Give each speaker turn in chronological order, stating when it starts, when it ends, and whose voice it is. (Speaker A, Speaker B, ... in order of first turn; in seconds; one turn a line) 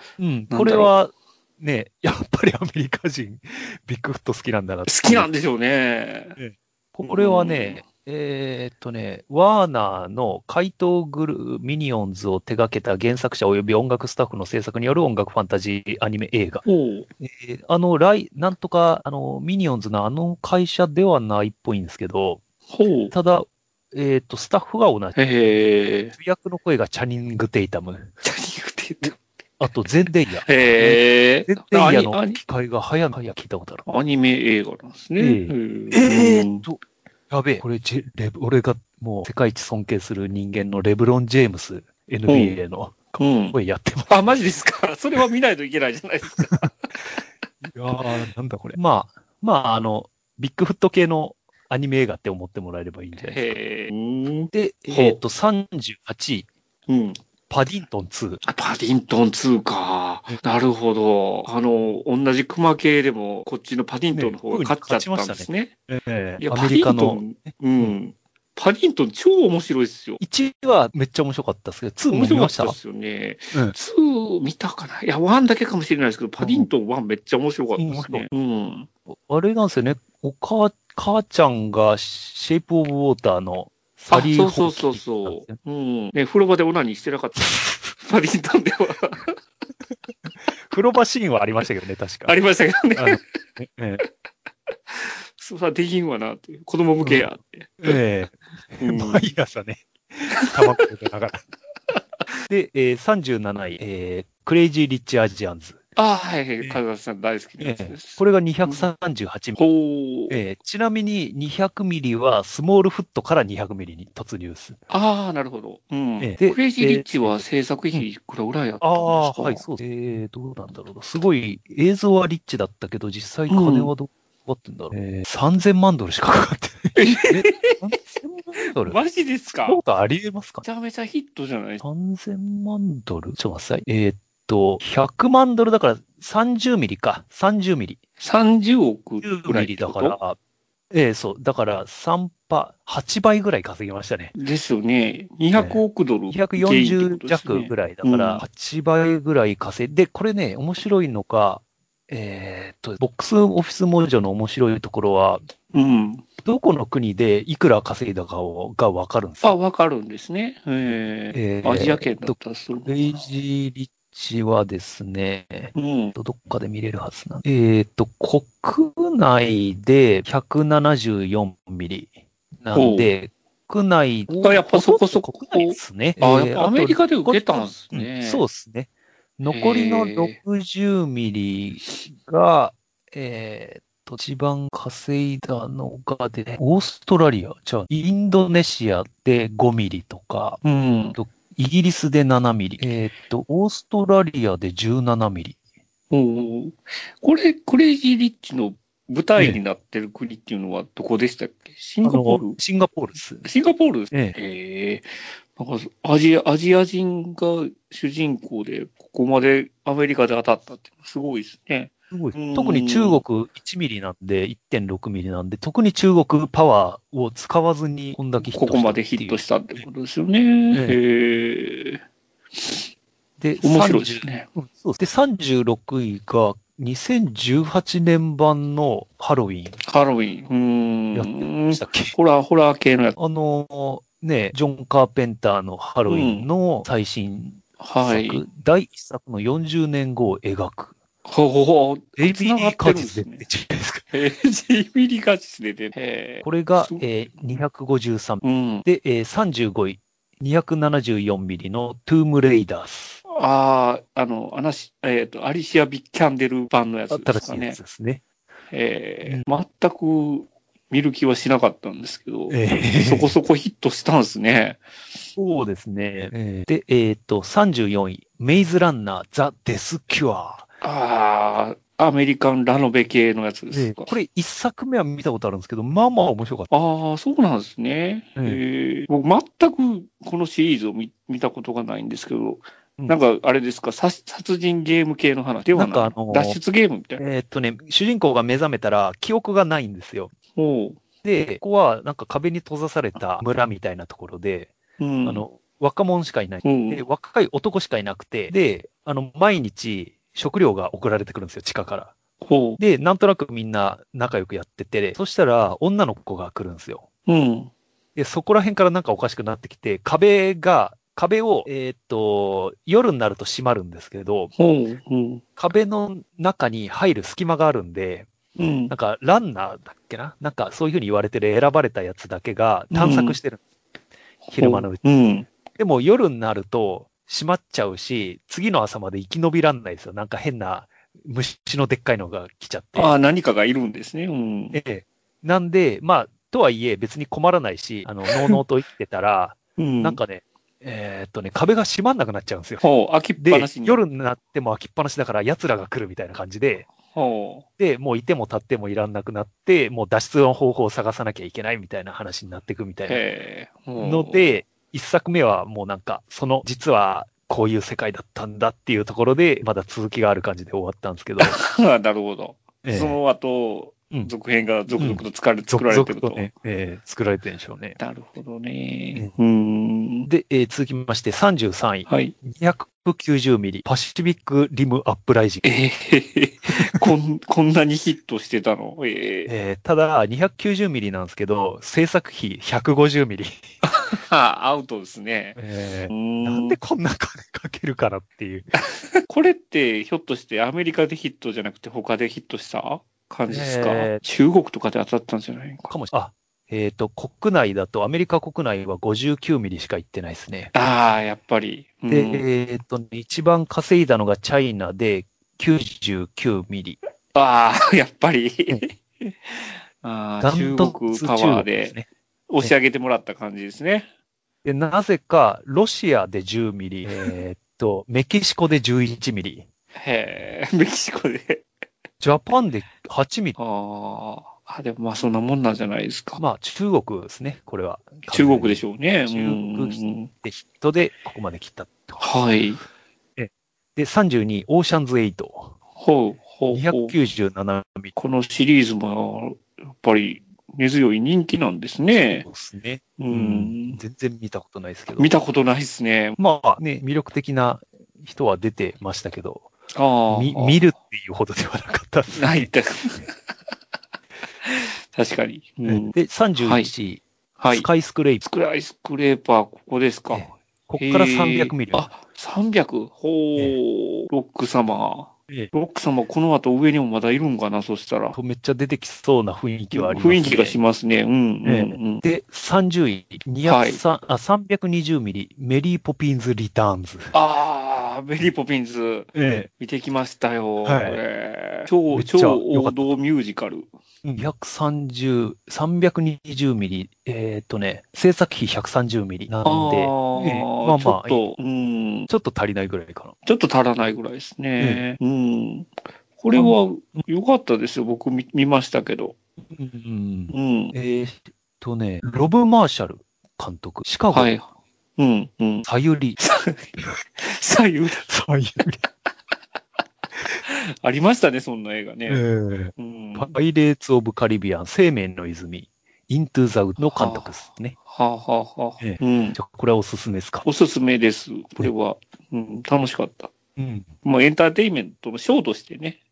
Speaker A: 0.2-5.3
Speaker B: 0.5-0.9
Speaker B: 4.8-6.4
Speaker A: 6.4-16.6
Speaker B: 7.0-7.8
Speaker B: 16.6-17.1
Speaker A: 17.2-22.4
Speaker B: 22.7-23.1
Speaker A: 23.1-25.6
Speaker B: 25.1-26.1
Speaker A: 26.1-28.1
Speaker B: 28.2-29.2
Speaker A: 29.6-33.9
Speaker B: 30.4-32.4
Speaker B: 33.9-36.6
Speaker A: 35.2-44.3
Speaker B: 42.3-42.6
Speaker B: 43.2-43.5
Speaker B: 44.1-46.9
Speaker A: 47.6-53.5
Speaker B: 53.1-55.2
Speaker A: 54.5-56.5
Speaker B: 56.9-57.2
Speaker A: 57.5-58.4
Speaker B: 58.4-65.7
Speaker A: 64.1-68.0
Speaker B: 66.4-70.2
Speaker A: 70.2-72.8
Speaker B: 72.1-78.9
Speaker A: 76.4-76.7
Speaker A: 77.8-78.3
Speaker A: 79.1-85.6
Speaker B: 84.1-89.3
Speaker A: 87.4-87.8
Speaker A: 90.6-92.3
Speaker B: 92.2-93.2
Speaker A: 93.0-94.0
Speaker B: 95.4-98.0
Speaker A: 97.0-97.3
Speaker A: 97.8-101.4
Speaker B: 98.8-99.3
Speaker B: 100.3-100.8
Speaker A: 102.5-105.8
Speaker B: 106.0-108.9
Speaker A: 107.6-109.6
Speaker B: 109.6-110.4
Speaker A: 110.3-114.8
Speaker B: 114.9-119.6
Speaker A: 116.2-117.4
Speaker A: 118.8-129.0
Speaker B: 123.5-123.9
Speaker B: 127.0-127.8
Speaker B: 128.8-129.8
Speaker A: 129.7-130.7
Speaker B: 130.6-131.8
Speaker A: 131.8-138.0
Speaker B: 138.2-140.2
Speaker A: 139.2-140.4
Speaker A: 140.9-144.3
Speaker B: 144.3-148.4
Speaker A: 145.5-155.4
Speaker B: 155.7-156.2
Speaker A: 156.4-159.6
Speaker B: 159.4-163.2
Speaker A: 161.3-190.6
Speaker B: 165.7-166.2
Speaker B: 172.7-173.1
Speaker B: 174.3-178.4
Speaker B: 179.5-180.4
Speaker B: 190.6-191.2
Speaker A: 191.1-195.6
Speaker B: 196.1-202.6
Speaker A: 202.0-203.5
Speaker B: 203.4-213.2
Speaker A: 204.1-204.3
Speaker A: 212.1-219.5
Speaker B: 218.4-222.0
Speaker A: 220.7-221.0
Speaker B: 222.6-222.9
Speaker A: 223.4-229.8
Speaker B: 223.6-224.5
Speaker B: 229.8-233.2
Speaker A: 231.1-232.1
Speaker A: 233.2-240.9
Speaker B: 236.1-236.5
Speaker B: 237.8-238.4
Speaker B: 241.2-243.4
Speaker A: 242.2-244.1
Speaker B: 244.1-247.1
Speaker A: 246.4-253.2
Speaker B: 248.4-248.8
Speaker B: 253.3-257.8
Speaker A: 257.1-258.2
Speaker B: 258.7-264.8
Speaker A: 262.5-263.3
Speaker A: 265.4-270.7
Speaker B: 270.8-274.1
Speaker A: 273.7-276.7
Speaker B: 276.7-287.2
Speaker A: 278.4-278.6
Speaker A: 285.7-286.6
Speaker A: 287.2-290.3
Speaker B: 290.6-291.0
Speaker A: 291.2-302.1
Speaker B: 295.0-295.4
Speaker B: 296.6-297.0
Speaker B: 302.4-302.8
Speaker A: 302.8-307.1
Speaker B: 307.2-307.7
Speaker A: 308.1-314.5
Speaker B: 314.6-315.4
Speaker A: 315.6-318.3
Speaker B: 318.6-318.9
Speaker A: 318.9-323.6
Speaker B: 322.9-323.4
Speaker B: 324.5-325.5
Speaker A: 324.5-325.0
Speaker A: 325.7-333.1
Speaker B: 332.9-334.8
Speaker A: 334.7-342.8
Speaker B: 338.3-338.6
Speaker B: 339.8-340.2
Speaker B: 342.8-344.0
Speaker A: 343.4-346.9
Speaker B: 347.1-347.6
Speaker A: 347.8-353.2
Speaker B: 353.1-354.5
Speaker A: 354.0-361.6
Speaker B: 361.4-366.5
Speaker A: 362.8-363.2
Speaker A: 365.0-368.0
Speaker B: 368.0-370.3
Speaker A: 370.2-375.6
Speaker B: 372.1-372.3
Speaker B: 375.6-379.5
Speaker A: 379.5-383.6
Speaker B: 383.8-385.6
Speaker A: 385.6-388.7
Speaker B: 386.1-386.8
Speaker B: 389.0-395.9
Speaker A: 393.5-394.2
Speaker A: 395.9-400.7
Speaker B: 400.7-402.4
Speaker A: 402.1-407.0
Speaker B: 407.3-411.9
Speaker A: 410.4-412.1
Speaker B: 412.5-414.1
Speaker A: 414.6-419.7
Speaker B: 419.9-421.6
Speaker A: 422.2-423.6
Speaker B: 423.6-426.4
Speaker A: 426.4-432.2
Speaker B: 428.3-430.3
Speaker B: 432.2-432.8
Speaker A: 433.4-435.7
Speaker B: 436.0-437.1
Speaker A: 436.7-438.1
Speaker B: 438.1-442.5
Speaker A: 442.4-445.3
Speaker B: 443.2-444.0
Speaker B: 445.2-446.4
Speaker A: 446.4-449.7
Speaker B: 449.9-450.9
Speaker A: 450.3-452.7
Speaker B: 452.3-453.3
Speaker B: 454.6-456.9
Speaker A: 455.9-458.4
Speaker B: 457.6-457.9
Speaker B: 458.4-468.4
Speaker A: 460.3-462.1
Speaker A: 468.3-470.8
Speaker B: 469.9-472.2
Speaker A: 471.6-477.3
Speaker B: 473.6-474.0
Speaker B: 477.3-483.9
Speaker A: 479.3-479.7
Speaker A: 480.8-481.2
Speaker A: 482.1-483.1
Speaker A: 484.2-491.4
Speaker B: 489.6-492.3
Speaker A: 492.3-493.3
Speaker B: 493.4-499.4
Speaker A: 494.8-495.0
Speaker A: 496.5-497.3
Speaker A: 499.7-504.5
Speaker B: 500.5-500.9
Speaker B: 504.3-504.6
Speaker B: 505.2-505.9
Speaker A: 505.9-506.4
Speaker B: 506.4-508.3
Speaker A: 508.2-509.0
Speaker B: 510.6-512.4
Speaker A: 512.3-518.0
Speaker B: 513.0-513.5
Speaker B: 517.0-519.6
Speaker A: 519.0-520.6
Speaker B: 520.6-523.5
Speaker A: 523.8-524.1
Speaker B: 524.2-526.2